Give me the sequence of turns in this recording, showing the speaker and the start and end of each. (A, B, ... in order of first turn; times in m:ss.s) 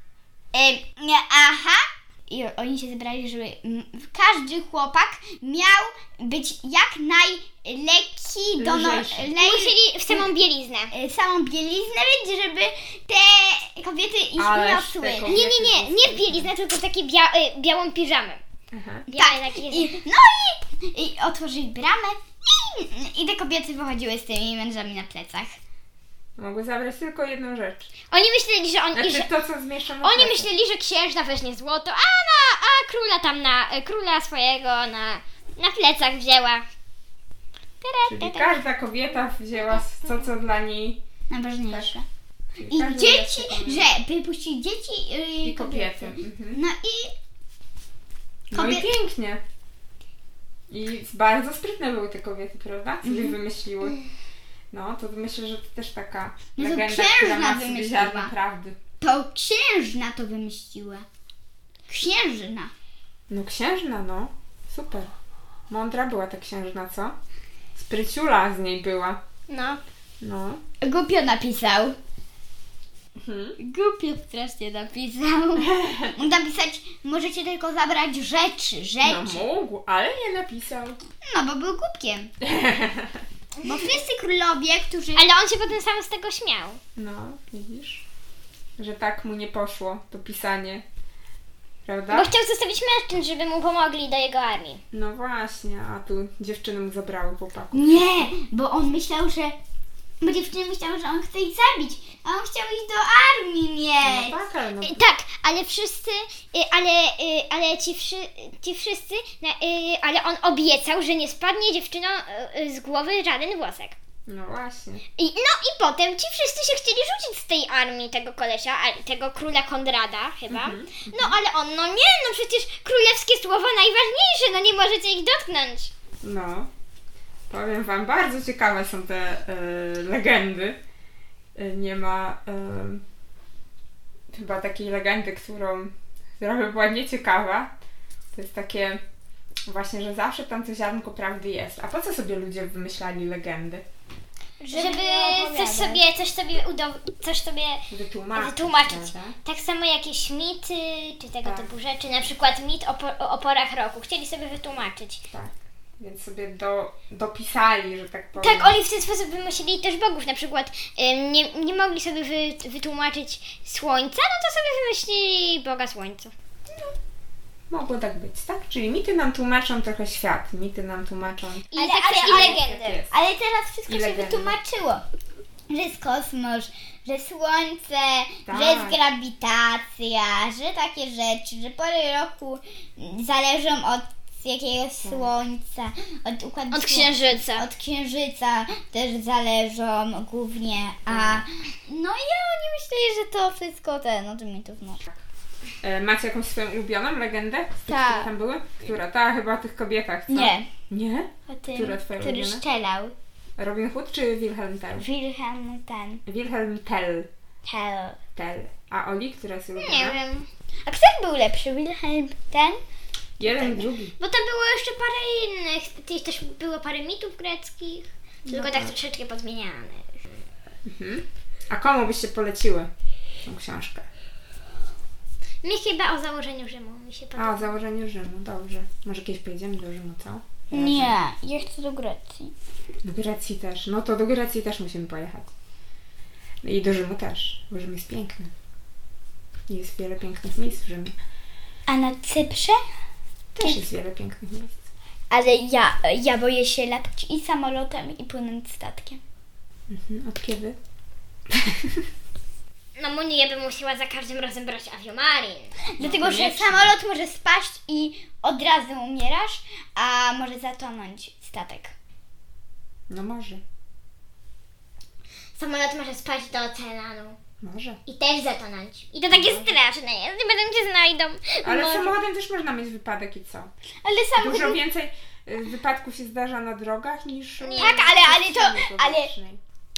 0:00.5-0:10.2 A
0:08.6-0:09.3 B
0:09.4-0:10.9 C
0:10.9-0:15.3 A
0:14.4-0:16.5 B
0:15.2-0:18.4 C
0:18.7-0:19.0 B
0:19.1-0:19.9 C
0:19.1-0:25.5 A
0:26.4-0:27.9 B
0:28.1-0:29.3 C
0:28.9-0:30.5 B
0:30.0-0:36.6 C
0:37.8-0:38.5 C
0:38.1-0:41.0 B
0:41.3-0:42.0 A
0:41.7-0:42.0 B
0:42.6-0:43.9 B
0:42.7-0:47.1 A
0:45.4-0:46.6 B
0:48.5-0:49.4 B
0:48.5-0:48.9 A
0:50.7-0:54.0 B
0:53.0-0:53.4 A
0:54.7-0:58.8 B
0:56.6-0:58.3 A
0:59.0-1:01.0 A
1:01.9-1:02.7 A
1:03.3-1:05.1 B
1:05.7-1:07.1 B
1:07.7-1:09.2 B
1:09.5-1:09.8 C
1:10.2-1:10.6 B
1:10.8-1:12.0 A
1:13.2-1:13.6 B
1:13.6-1:19.4 A
1:15.6-1:16.1 B
1:19.0-1:21.0 B
1:21.2-1:22.3 A
1:22.4-1:23.2 B
1:23.6-1:23.9 C
1:23.6-1:25.3 A
1:25.1-1:26.8 C
1:27.0-1:28.0 B
1:28.8-1:30.8 B
1:31.8-1:32.3 B
1:32.1-1:34.8 C
1:34.9-1:38.3 B
1:37.7-1:39.6 A
1:40.2-1:44.4 A
1:44.0-1:45.0 B
1:44.8-1:54.0 C
1:54.3-1:55.0 B
1:55.2-2:05.9 C
2:00.5-2:01.4 B
2:06.2-2:06.7 B
2:07.5-2:10.8 B
2:11.6-2:13.0 B
2:14.3-2:17.7 B
2:18.3-2:19.0 B
2:19.7-2:23.8 B
2:24.6-2:26.0 A
2:24.7-2:35.2 C
2:27.9-2:29.4 B
2:31.4-2:31.7 B
2:35.3-2:38.8 B
2:38.4-2:46.3 C
2:47.7-2:53.2 B
2:51.7-2:53.0 C
2:51.8-2:55.0 A
2:53.9-2:54.6 B
2:55.7-3:15.0 A
2:58.4-2:59.0 B
3:05.0-3:05.3 B
3:06.7-3:07.6 C
3:11.1-3:11.4 B
3:15.8-3:22.6 B
3:17.9-3:18.3 A
3:20.3-3:20.7 A
3:21.5-3:23.1 A
3:23.6-3:25.1 B
3:24.9-3:26.2 A
3:26.2-3:27.3 B
3:27.6-3:28.2 A
3:28.3-3:30.2 B
3:29.8-3:30.5 C
3:30.8-3:32.8 A
3:33.4-3:34.2 B
3:33.4-3:33.8 A
3:34.2-3:40.2 C
3:38.5-3:38.9 B
3:40.8-3:42.9 B
3:43.4-3:44.1 B
3:45.6-3:47.7 C
3:47.4-3:51.2 B
3:50.7-3:52.5 A
3:53.0-3:55.5 B
3:56.6-3:58.5 B
3:59.7-4:01.1 B
4:01.9-4:02.8 A
4:03.5-4:04.8 B
4:05.3-4:09.2 A
4:09.9-4:10.8 B
4:11.5-4:12.0 B
4:13.0-4:15.7 C
4:15.9-4:21.9 A
4:16.0-4:16.9 B
4:23.1-4:23.6 B
4:25.6-4:27.4 C
4:27.6-4:28.0 B
4:28.0-4:32.2 C
4:29.3-4:29.8 B
4:31.6-4:33.7 B
4:34.0-4:34.8 A
4:34.4-4:39.6 B
4:37.6-4:38.2 C
4:37.8-4:39.3 A